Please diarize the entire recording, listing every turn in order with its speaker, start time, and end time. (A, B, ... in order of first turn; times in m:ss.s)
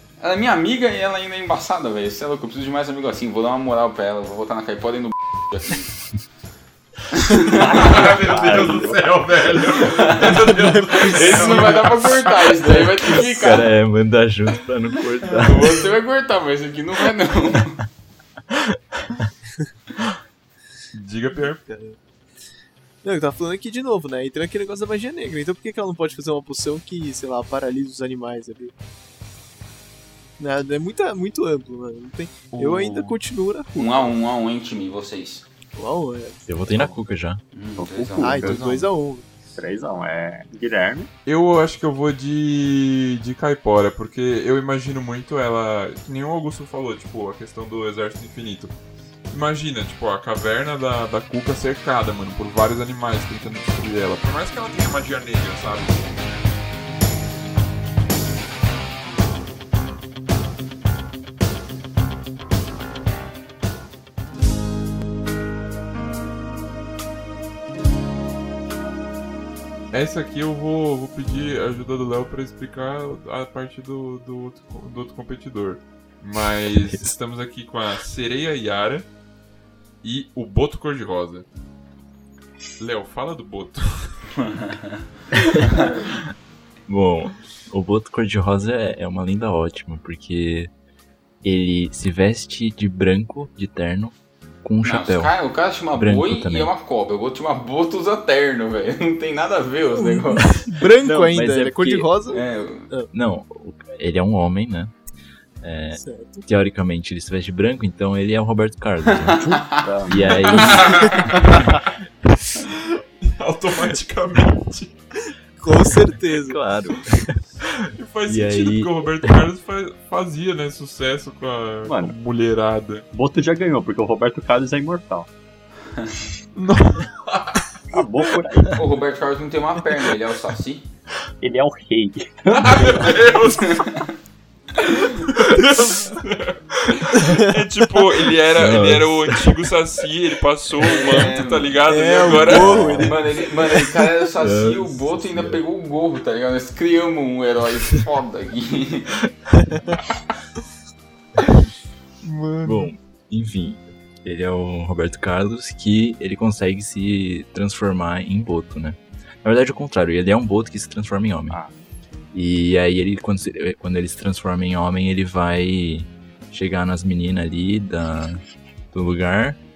0:00.2-0:05.9 A
0:07.1-0:08.0 A
0:07.5-0:09.6 B
0:07.7-0:12.4 C
0:09.8-0:10.4 A
0:10.7-0:11.1 D
0:11.0-0:13.7 A
0:13.1-0:15.8 E
0:15.2-0:17.8 A
0:18.5-0:19.2 E
0:20.9-0:21.6 C
0:21.6-0:22.0 D
0:23.0-0:28.7 D
0:30.4-0:34.1 D
0:32.5-0:33.2 C
0:33.8-0:35.5 A
0:35.8-0:36.4 D
0:36.5-0:37.4 E
0:37.5-0:38.6 A
0:37.8-0:38.6 B
0:38.2-0:39.2 D
0:38.4-0:38.8 C
0:39.5-0:41.1 B
0:41.2-0:48.8 C
0:49.3-0:56.2 C
1:09.9-1:19.1 C
1:16.8-1:17.1 E
1:20.0-1:21.4 C
1:22.8-1:24.3 C
1:24.4-1:25.0 A
1:25.4-1:25.6 E
1:25.6-1:26.2 A
1:26.9-1:30.7 E
1:31.4-1:35.3 E
1:34.8-1:40.6 A
1:35.9-1:36.7 E
1:39.9-1:43.1 D
1:41.0-1:42.2 E
1:42.3-1:42.9 A
1:43.1-1:44.9 E
1:45.6-1:49.5 E
1:45.9-1:46.4 D
1:49.0-1:49.8 A
1:49.4-1:50.8 B
1:50.1-1:51.1 E
1:50.4-1:51.8 C
1:52.6-1:54.9 C
1:55.6-1:56.6 D
1:56.2-1:59.5 E
1:58.0-2:03.1 C
2:01.8-2:02.1 B
2:03.1-2:05.3 B
2:06.5-2:07.8 C
2:07.9-2:08.9 B
2:08.7-2:10.9 A
2:11.4-2:13.2 B
2:12.5-2:13.9 C
2:13.6-2:14.1 A
2:14.8-2:23.0 C
2:14.9-2:15.2 A
2:18.5-2:19.6 E
2:20.8-2:21.6 A
2:20.9-2:23.4 D
2:22.5-2:29.2 A
2:22.7-2:23.2 E
2:24.4-2:25.6 E
2:32.2-2:32.9 C
2:32.6-2:41.6 E
2:42.3-2:49.6 E